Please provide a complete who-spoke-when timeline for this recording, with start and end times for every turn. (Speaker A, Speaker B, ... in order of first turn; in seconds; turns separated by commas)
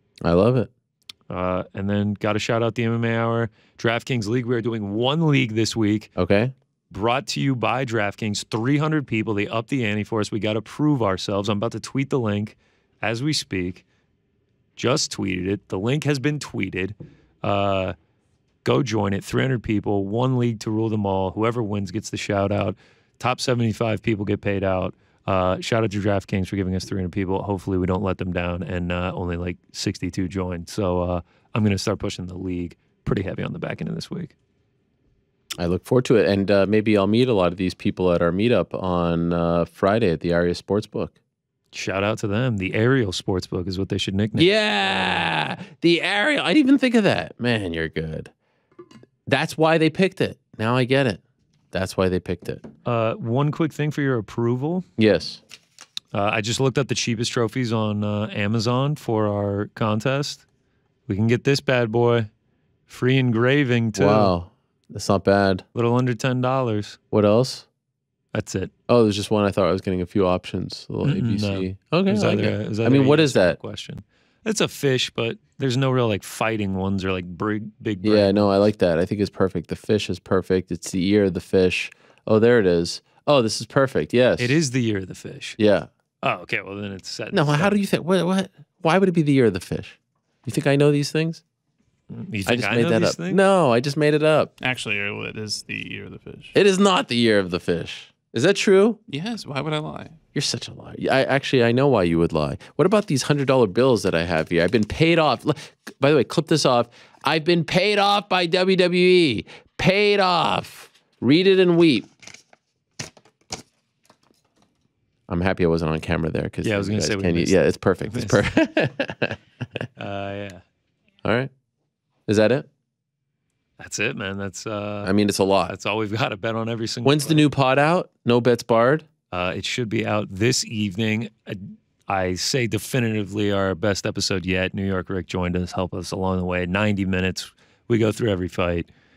Speaker A: 0.2-0.7, Speaker B: 1.3-6.1, Speaker A: 6.2-6.5, Speaker B: 6.9-13.8, Speaker B: 14.8-17.9, Speaker B: 18.6-34.3, Speaker A: 35.6-41.1, Speaker B: 41.7-45.3, Speaker A: 44.4-48.3, Speaker A: 49.3-51.2, Speaker A: 51.7-52.6, Speaker B: 52.9-54.9, Speaker A: 55.0-55.4, Speaker B: 56.1-60.4, Speaker B: 61.1-62.3, Speaker B: 62.9-64.3, Speaker A: 64.0-65.6, Speaker B: 65.7-67.0, Speaker A: 67.1-67.7, Speaker B: 68.3-68.7, Speaker A: 68.9-73.6, Speaker B: 71.0-78.5, Speaker A: 78.0-84.6, Speaker B: 84.4-85.6, Speaker A: 85.6-85.9, Speaker B: 86.2-87.8, Speaker A: 87.3-91.4, Speaker B: 92.1-93.4, Speaker A: 92.5-94.5, Speaker C: 94.6-96.5, Speaker A: 96.5-99.0, Speaker C: 99.1-100.2, Speaker A: 100.3-112.1, Speaker A: 115.3-119.4, Speaker B: 116.6-117.6, Speaker B: 118.1-118.4, Speaker B: 120.0-120.6, Speaker A: 121.2-121.5, Speaker A: 122.3-122.7, Speaker B: 123.8-125.1, Speaker A: 125.0-125.7, Speaker B: 125.6-127.5, Speaker A: 127.0-129.1, Speaker B: 129.3-138.9